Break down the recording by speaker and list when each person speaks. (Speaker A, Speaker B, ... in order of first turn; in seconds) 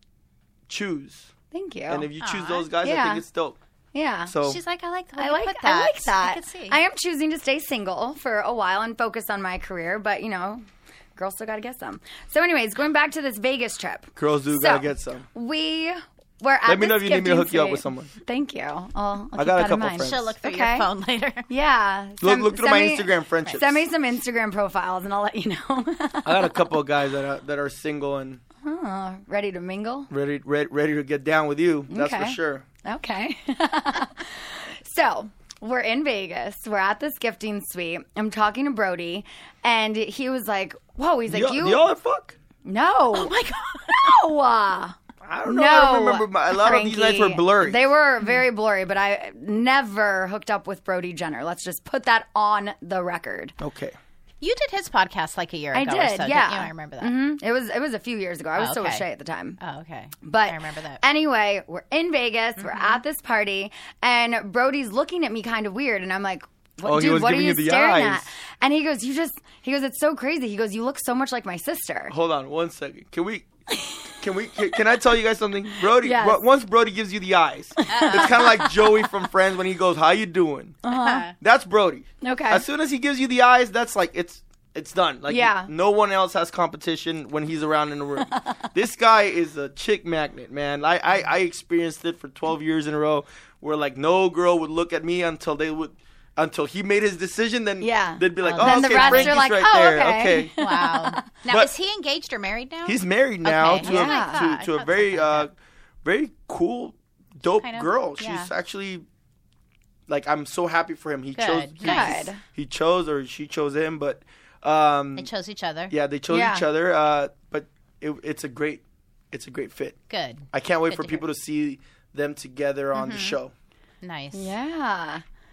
Speaker A: 0.7-1.3, 1.9-3.6, 4.3-4.6, 14.2-15.3, 16.6-18.1, 19.4-20.3, 22.2-23.8, 26.2-28.4, 30.1-32.7, 41.3-42.4, 45.2-47.9, 53.6-54.0, 66.8-68.3, 72.1-73.5, 74.2-80.8, 81.4-100.5, 102.8-105.5, 106.0-109.0, 110.1-115.3, 115.9-120.0, 120.5-123.5
Speaker B: 1.5-2.1, 2.8-3.2, 3.9-4.3, 5.2-10.6, 11.2-20.9, 21.5-26.6, 28.6-30.1, 31.9-41.9, 42.6-53.5, 55.7-59.6, 60.2-72.2, 73.8-74.1, 76.0-76.4, 77.8-79.0, 80.8-81.3, 82.2-82.7, 85.3-85.7, 88.3-88.7, 97.8-101.2, 103.8-104.4, 111.8-112.4, 116.3-116.7, 124.3-125.2
Speaker C: 2.2-2.7, 4.4-6.8, 20.0-21.5, 43.1-44.2, 54.4-57.2, 58.6-59.0, 59.6-61.0, 62.6-63.0, 77.9-78.4, 80.9-81.3, 98.4-99.5, 100.6-105.5, 107.6-108.5, 111.4-112.2, 115.2-115.9, 120.1-121.2, 123.0-123.4, 124.0-124.5